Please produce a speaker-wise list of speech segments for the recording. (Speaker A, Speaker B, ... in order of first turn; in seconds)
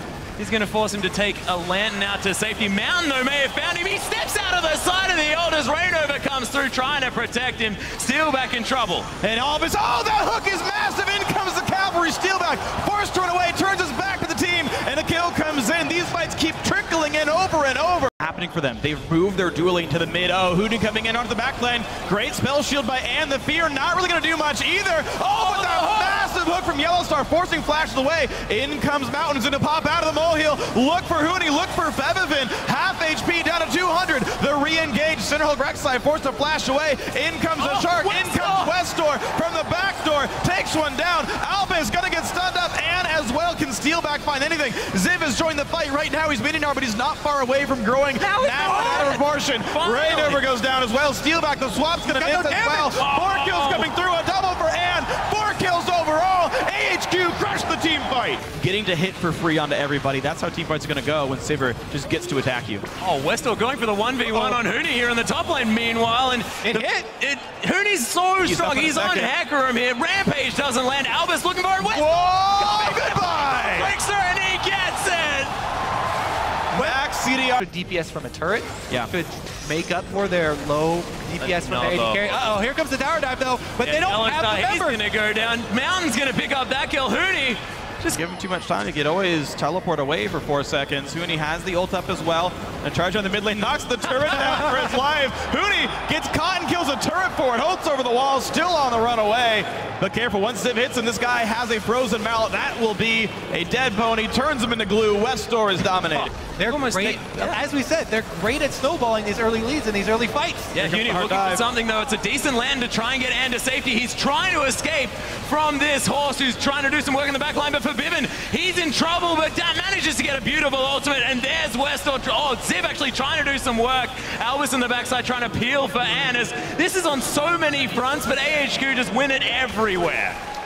Speaker A: 0.4-9.1, 25.3-26.2, 37.6-38.7, 48.2-50.4, 52.9-53.9, 63.0-75.5, 81.4-82.4, 83.8-88.2, 106.1-107.6, 110.7-130.4
Speaker B: 9.2-62.9, 64.3-64.6, 68.4-69.3, 71.8-73.9, 76.7-77.6, 88.1-106.3, 110.7-111.6
Speaker C: 52.0-53.0, 66.6-67.1, 77.6-85.0, 106.6-110.7